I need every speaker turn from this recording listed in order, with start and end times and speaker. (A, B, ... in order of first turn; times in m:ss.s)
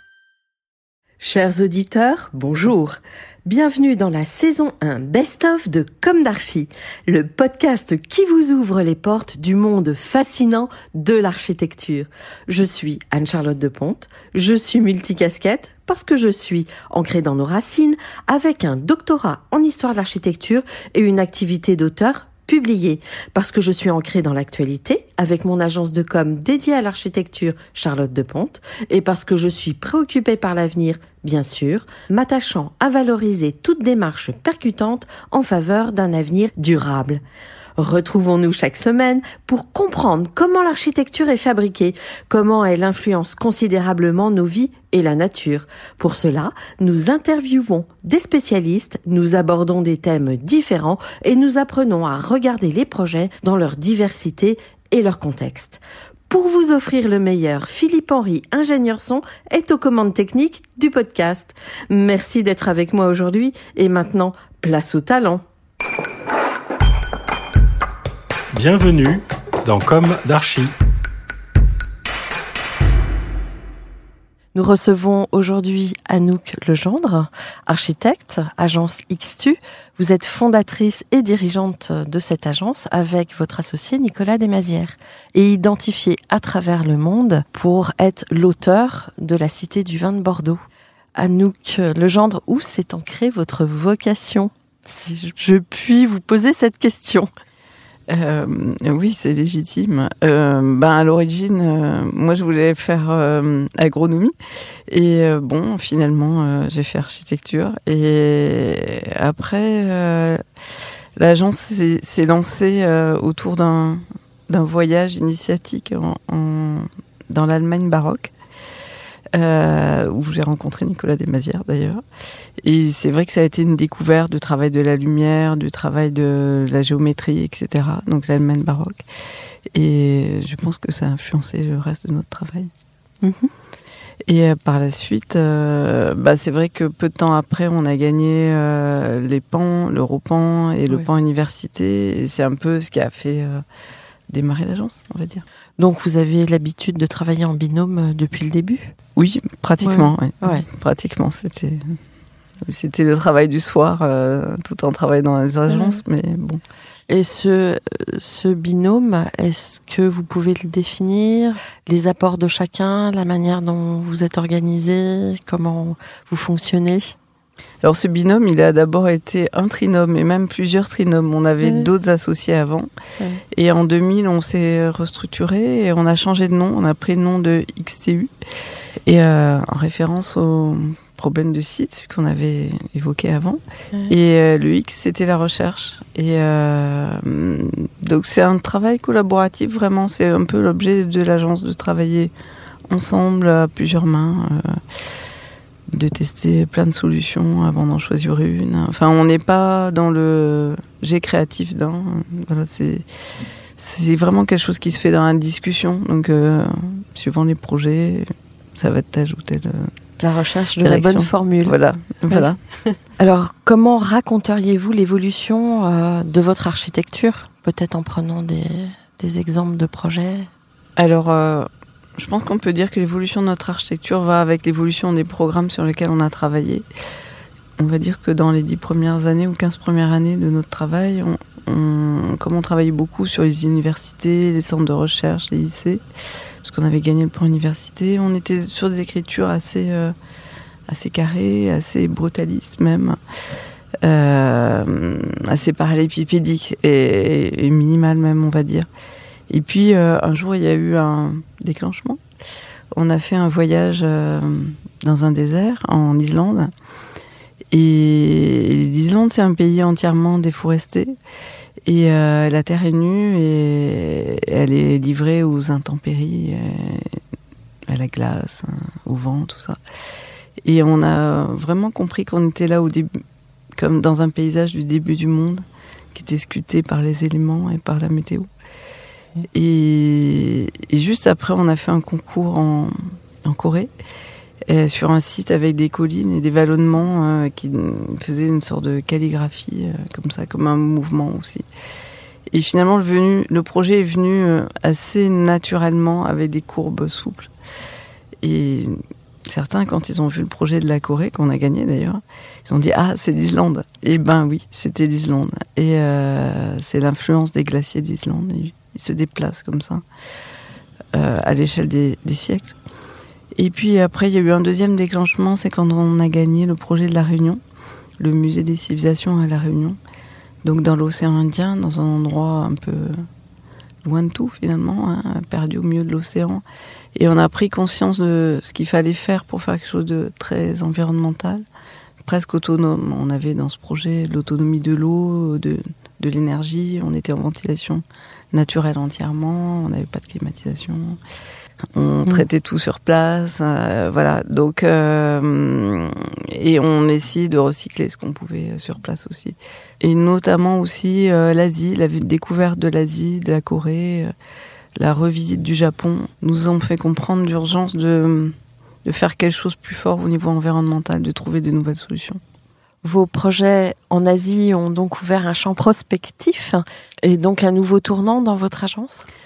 0:01.2-0:37.2 A
0:37.8-1:05.4 A
1:08.5-1:10.7 B
1:14.5-1:30.6 A
1:31.1-1:37.3 A
1:38.1-1:44.3 C
1:44.9-1:50.4 C
1:51.2-1:58.3 C
1:59.3-2:02.0 C
2:02.6-2:09.0 C
2:09.7-2:12.7 C
2:13.2-2:13.5 A
2:14.2-2:23.6 C
2:24.3-2:25.4 C
2:25.8-2:28.9 A
2:29.2-2:32.0 C
2:29.8-2:30.6 A
2:32.6-2:36.6 C
2:35.7-2:36.0 A
2:37.1-2:47.1 A
2:47.8-2:52.9 C
2:51.6-2:51.9 A
2:53.5-2:58.3 C
2:59.0-3:12.3 C
3:12.9-3:14.8 C
3:15.9-3:23.0 C
3:23.8-3:29.9 C
3:30.2-3:31.7 A
3:30.8-3:32.6 C
3:33.1-3:40.5 A
3:41.0-3:46.8 C
3:47.8-3:56.0 C
3:56.6-4:00.1 C
4:00.9-4:03.2 C
4:04.0-4:08.9 C
4:09.5-4:12.2 C
4:12.9-4:16.7 C
4:17.7-4:21.2 C
4:21.8-4:27.2 C
4:27.9-4:29.8 C
4:30.6-4:33.2 C
4:33.8-4:38.5 C
4:39.4-4:43.9 C
4:44.7-4:51.7 C
4:52.5-4:57.5 C
4:58.4-5:10.0 C
5:11.1-5:12.8 C
5:13.5-5:17.6 C
5:18.2-5:20.0 C
5:20.6-5:23.3 C
5:24.0-5:26.6 C
5:27.1-5:31.6 C
5:32.2-5:41.2 C
5:41.9-5:54.3 C
5:55.0-6:02.4 C
6:03.0-6:09.3 A